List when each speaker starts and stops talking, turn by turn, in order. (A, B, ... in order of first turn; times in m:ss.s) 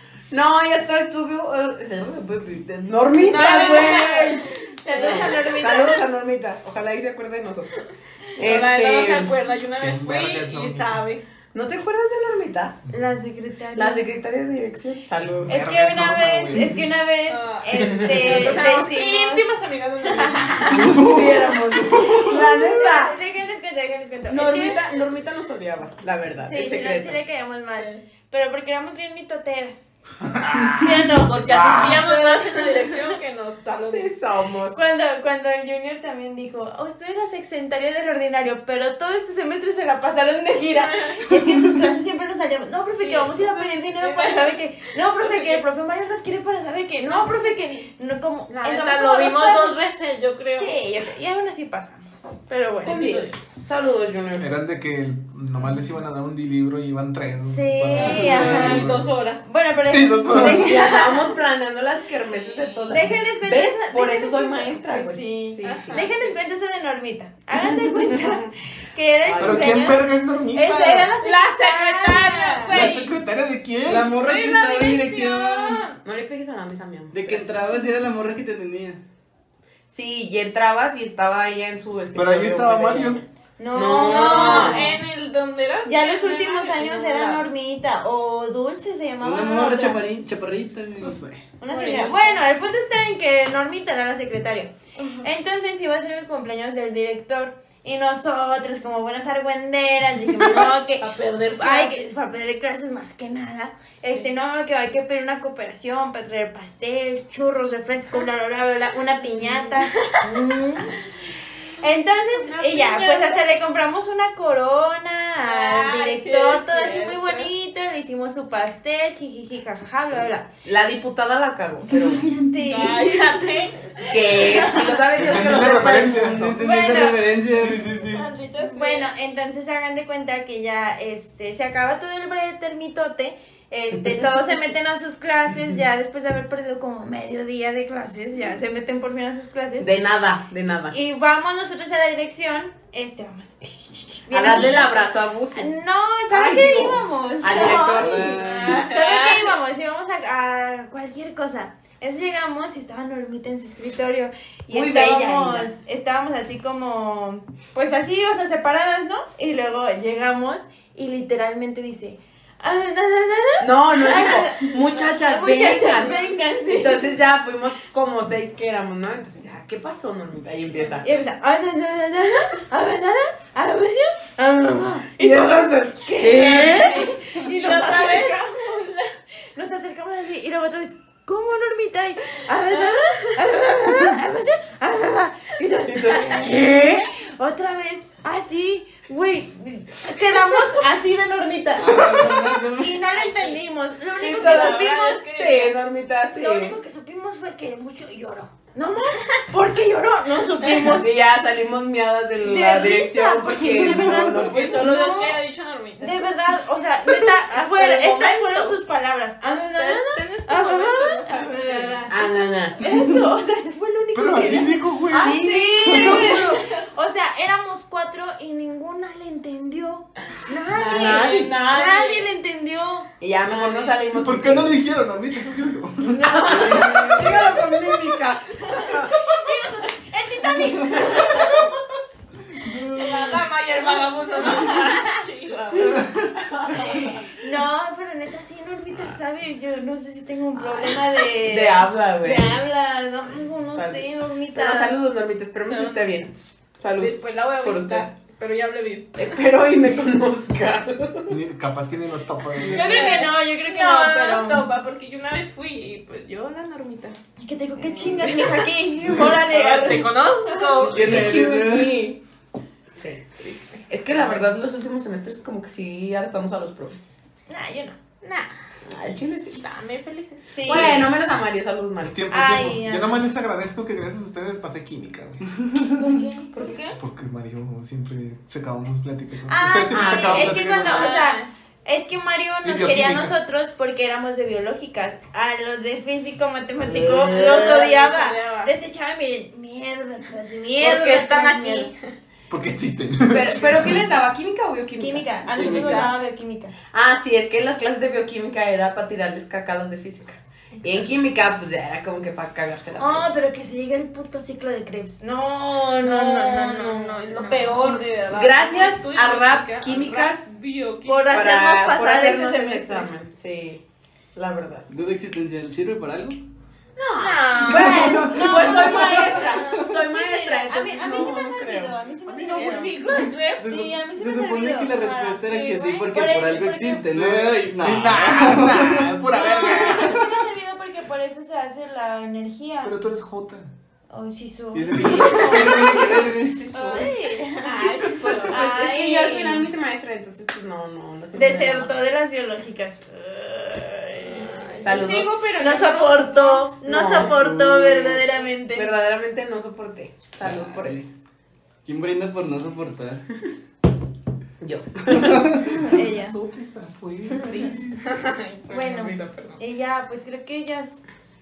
0:00.3-0:09.4 A
0:03.2-0:05.6 B
0:03.5-0:04.2 C
0:04.8-0:06.1 C
0:08.4-0:11.2 B
0:09.7-0:11.0 D
0:11.5-0:12.8 A
0:12.9-0:14.1 C
0:13.8-0:15.6 A
0:15.2-0:16.8 D
0:15.5-0:19.5 C
0:17.3-0:21.1 B
0:17.8-0:18.9 A
0:20.0-0:20.8 C
0:20.7-0:22.2 D
0:20.9-0:23.2 A
0:21.8-0:24.9 C
0:24.3-0:27.2 A
0:24.4-0:24.8 B
0:26.4-0:29.9 C
0:27.8-0:28.0 B
0:30.3-0:32.1 D
0:30.7-0:33.2 C
0:31.2-0:34.1 B
0:33.8-0:34.8 A
0:34.7-0:49.8 C
0:40.7-0:41.2 B
0:41.3-0:42.0 D
0:42.9-0:44.6 B
0:45.1-0:45.7 B
0:47.1-0:47.5 B
0:48.5-0:48.8 A
0:48.6-0:50.8 B
0:50.5-0:53.1 C
0:52.8-0:53.4 B
0:52.8-0:54.6 A
0:54.4-0:59.1 D
0:57.5-1:01.3 C
0:57.9-0:59.4 B
0:58.2-0:59.0 E
0:59.9-1:00.8 D
1:00.4-1:06.1 A
1:02.2-1:03.0 B
1:02.9-1:12.9 C
1:05.6-1:06.4 B
1:07.6-1:08.5 A
1:09.2-1:10.0 A
1:09.4-1:11.1 D
1:11.2-1:13.2 B
1:12.7-1:14.1 D
1:13.8-1:15.8 E
1:14.1-1:16.0 B
1:16.0-1:17.6 A
1:17.1-1:19.0 E
1:19.9-1:23.2 A
1:22.2-1:23.2 D
1:23.6-1:25.0 C
1:23.7-1:24.9 A
1:23.8-1:27.5 B
1:25.9-1:30.0 C
1:29.2-1:31.2 E
1:31.0-1:31.5 D
1:31.6-1:51.1 C
1:31.6-1:32.4 B
1:35.0-1:35.3 B
1:41.0-1:42.1 B
1:44.0-1:44.3 B
1:49.9-1:50.2 B
1:51.8-2:00.5 C
1:52.3-1:53.5 B
1:55.4-1:57.5 B
2:00.6-2:02.3 A
2:01.9-2:04.8 C
2:02.6-2:05.0 B
2:04.1-2:06.6 A
2:05.1-2:06.5 D
2:05.8-2:07.8 E
2:06.6-2:07.2 C
2:07.5-2:08.3 D
2:08.0-2:09.1 B
2:08.6-2:19.9 C
2:19.8-2:21.0 A
2:20.9-2:47.1 C
2:24.3-2:25.7 A
2:26.3-2:28.5 A
2:27.6-2:28.8 E
2:28.4-2:29.6 B
2:34.7-2:35.7 A
2:43.6-2:51.1 A
2:51.0-2:58.9 C
2:55.2-2:57.0 A
2:56.4-2:59.1 B
2:59.6-3:15.3 C
3:02.7-3:03.5 B
3:05.8-3:07.0 A
3:11.8-3:13.0 E
3:13.0-3:13.6 B
3:14.2-3:16.8 A
3:14.2-3:15.8 B
3:16.4-3:21.2 C
3:20.9-3:24.8 A
3:22.4-3:25.4 C
3:23.8-3:26.2 B
3:26.0-3:43.1 C
3:27.2-3:28.8 B
3:29.4-3:32.1 B
3:32.1-3:32.8 A
3:34.1-3:35.4 D
3:35.1-3:36.5 A
3:40.8-3:41.6 A
3:40.9-3:42.3 B
3:43.2-3:44.8 A
3:43.4-3:44.1 B
3:44.2-3:48.0 D
3:46.0-3:47.6 C
3:46.3-3:49.1 A
3:48.8-3:51.7 C
3:50.6-3:51.5 B
3:51.3-3:51.7 D
3:52.5-3:53.3 D
3:52.7-3:53.4 C
3:53.0-3:56.2 B
3:56.3-3:57.2 A
3:56.8-3:57.2 B
3:57.4-4:05.0 C
4:01.4-4:02.6 A
4:03.8-4:08.1 A
4:05.6-4:06.2 B
4:07.0-4:09.4 B
4:09.2-4:11.4 A
4:11.3-4:13.0 D
4:12.6-4:12.9 E
4:12.7-4:17.2 B
4:12.7-4:14.7 C
4:17.4-4:20.9 C
4:17.9-4:18.4 A
4:18.0-4:21.4 B
4:20.8-4:22.1 E
4:20.9-4:22.2 A
4:22.9-4:23.3 A
4:23.4-4:24.5 B
4:23.9-4:27.1 A
4:27.5-4:28.0 C
4:28.2-4:28.5 B
4:28.8-4:29.6 A
4:29.6-4:31.0 B
4:30.5-4:31.1 C
4:30.6-4:32.2 A
4:32.0-4:35.4 D
4:32.3-4:33.2 C
4:36.0-4:36.9 C
4:36.6-4:36.9 B
4:37.0-4:41.2 D
4:39.5-4:51.9 C
4:39.9-4:40.7 A
4:40.7-4:41.5 B
4:42.6-4:43.3 D
4:46.8-4:47.9 A
4:47.4-4:48.7 B
4:50.8-4:52.1 B
4:52.5-4:54.1 D
4:53.3-4:56.1 A
4:55.0-4:56.7 C
4:55.6-4:56.1 E
4:55.7-4:56.1 B
4:56.9-5:03.4 A
5:00.8-5:01.1 B
5:03.0-5:08.0 C
5:06.0-5:11.6 B
5:08.3-5:10.5 A
5:11.1-5:13.1 C
5:11.3-5:13.8 A
5:14.4-5:14.9 A
5:14.9-5:16.4 E
5:17.0-5:22.0 A
5:17.2-5:18.7 B
5:17.6-5:27.2 C
5:17.7-5:19.2 D
5:22.3-5:23.1 D
5:22.5-5:23.8 B
5:23.6-5:29.2 E
5:25.5-5:26.0 B
5:27.1-5:30.3 D
5:29.3-5:33.0 C
5:29.8-5:30.1 E
5:32.8-5:33.7 D
5:34.1-5:37.8 C
5:34.8-5:36.6 E
5:35.1-5:35.4 D
5:35.2-5:36.0 B
5:35.3-5:37.0 A
5:36.8-5:38.7 B
5:37.8-5:41.9 A
5:38.4-5:39.7 C
5:41.3-5:48.9 C
5:44.3-5:46.8 B
5:44.8-5:45.5 A
5:46.8-5:51.1 A
5:50.4-5:51.1 E
5:51.8-5:53.3 E
5:54.6-5:55.5 A
5:55.1-5:55.7 E
5:55.6-5:58.0 D
5:55.7-5:56.4 C
5:57.3-5:57.7 C
5:57.6-5:59.6 B
5:58.7-6:01.0 C